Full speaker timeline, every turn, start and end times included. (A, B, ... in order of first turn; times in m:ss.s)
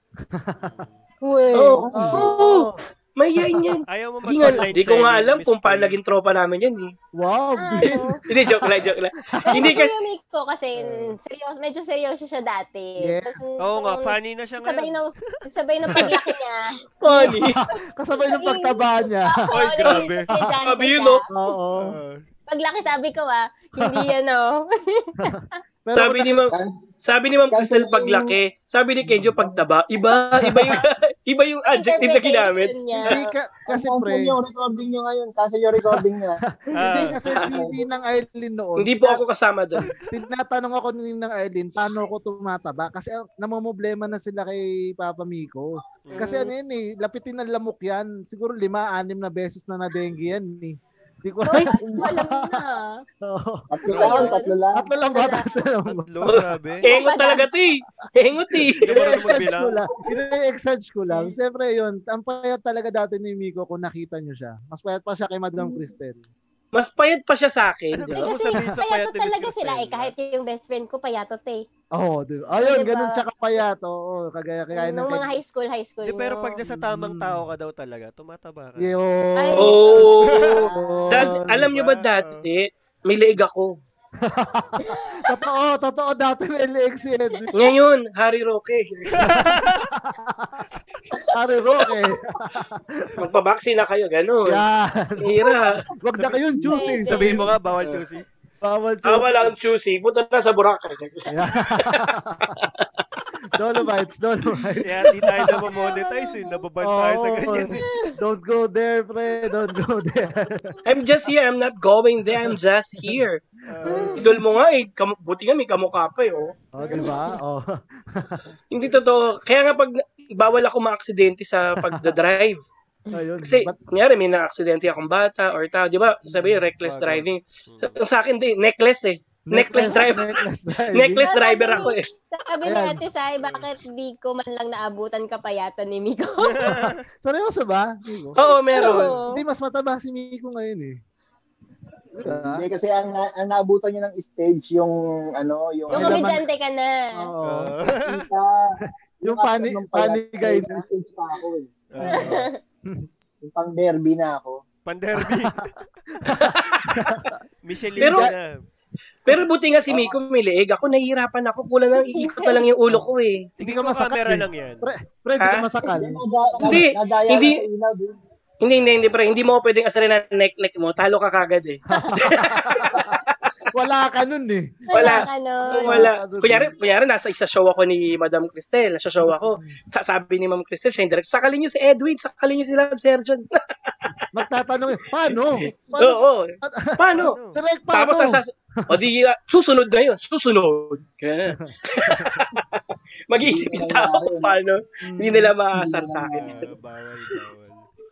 0:00.3-0:00.7 A
0:00.6-0:01.0 B
0:01.2-0:01.8 C
0:01.6-0:06.9 D
0:01.8-0:02.4 E
0:01.9-0:02.8 A
0:03.4-0:03.7 A
0:03.9-0:06.0 B
0:07.2-0:09.8 A
0:07.6-0:08.2 C
0:08.3-0:10.0 D
0:09.5-0:17.6 C
0:13.0-0:13.5 A
0:13.6-0:15.4 B
0:17.0-0:17.6 D
0:17.2-0:19.4 A
0:18.1-0:21.2 C
0:19.5-0:20.3 B
0:20.6-0:21.2 D
0:21.3-0:22.0 A
0:21.7-0:22.2 B
0:22.5-0:25.6 C
0:25.2-0:26.5 A
0:26.0-0:33.2 D
0:27.5-0:28.4 E
0:29.1-0:29.4 A
0:30.0-0:30.8 C
0:31.6-0:33.3 C
0:33.0-0:34.4 A
0:33.7-0:36.4 E
0:36.5-0:39.2 A
0:36.8-0:37.2 B
0:37.4-0:37.8 E
0:38.8-0:39.8 D
0:40.0-0:52.6 A
0:46.0-0:46.4 B
0:46.2-0:46.5 C
0:51.5-0:53.0 C
0:51.8-0:52.2 E
0:53.2-0:56.4 A
0:53.7-0:54.9 E
0:53.9-0:55.6 C
0:53.9-0:54.3 B
0:55.9-0:56.9 B
0:56.3-0:59.2 D
0:56.8-0:57.5 C
0:58.6-1:06.2 A
0:58.8-0:59.9 B
1:01.1-1:01.4 C
1:06.7-1:08.3 D
1:07.9-1:10.1 B
1:08.1-1:11.6 C
1:12.0-1:15.3 A
1:12.6-1:13.2 C
1:14.7-1:16.6 C
1:16.0-1:19.0 B
1:16.6-1:17.4 A
1:18.8-1:20.1 A
1:19.4-1:21.4 C
1:19.6-1:23.7 D
1:20.3-1:20.6 B
1:20.7-1:21.7 A
1:21.6-1:22.5 B
1:24.2-1:27.5 A
1:24.8-1:25.2 C
1:27.3-1:27.7 C
1:27.5-1:29.4 D
1:29.1-1:29.8 B
1:29.2-1:30.6 A
1:31.3-1:33.2 A
1:33.2-1:34.6 D
1:34.5-1:37.5 A
1:35.2-1:35.8 D
1:36.2-1:38.3 B
1:36.7-1:37.5 C
1:38.6-1:39.5 A
1:39.0-1:42.8 D
1:41.3-1:42.6 A
1:43.5-1:45.6 A
1:44.8-1:47.9 B
1:45.7-1:46.6 C
1:46.8-1:50.7 A
1:47.8-1:48.1 C
1:50.8-1:53.4 D
1:53.7-1:54.2 B
1:53.9-1:54.2 C
1:53.9-1:54.2 A
1:54.2-1:56.5 D
1:56.8-1:58.4 A
1:56.8-1:57.4 C
1:58.7-2:02.6 D
2:03.1-2:03.8 A
2:03.4-2:10.3 D
2:06.3-2:06.6 A
2:06.8-2:08.0 B
2:09.5-2:11.3 A
2:10.9-2:12.0 D
2:11.3-2:16.8 C
2:12.7-2:13.0 A
2:13.4-2:13.7 B
2:16.4-2:17.0 B
2:17.2-2:21.0 A
2:18.4-2:19.2 D
2:18.4-2:19.4 C
2:22.2-2:22.6 A
2:22.2-2:26.3 E
2:25.9-2:26.2 B
2:25.9-2:26.5 A
2:25.9-2:27.1 C
2:27.2-2:27.7 A
2:27.4-2:28.3 B
2:28.0-2:32.1 E
2:29.2-2:30.8 A
2:31.9-2:32.5 B
2:32.0-2:33.1 A
2:32.1-2:32.6 C
2:33.4-2:34.6 E
2:34.8-2:36.3 B
2:35.1-2:35.6 A
2:36.2-2:38.3 A
2:36.4-2:37.0 D
2:37.6-2:38.6 B
2:38.0-2:38.3 D
2:39.3-2:43.5 D
2:39.9-2:40.2 E
2:42.0-2:42.6 C
2:43.6-2:44.9 B
2:43.6-2:46.2 A
2:45.4-2:45.7 D
2:46.0-2:48.2 E
2:46.5-2:46.8 C
2:46.6-2:47.6 D
2:48.6-2:53.5 D
2:48.7-2:49.1 B
2:51.9-2:53.2 A
2:53.7-2:56.7 A
2:54.9-2:56.1 C
2:54.9-3:04.2 D
2:59.2-2:59.8 A
3:04.3-3:09.0 A
3:05.2-3:07.4 D
3:07.2-3:07.6 B
3:07.9-3:16.6 D
3:11.6-3:12.5 A
3:13.4-3:14.5 E
3:15.0-3:15.5 A
3:15.7-3:16.7 E
3:16.3-3:17.8 B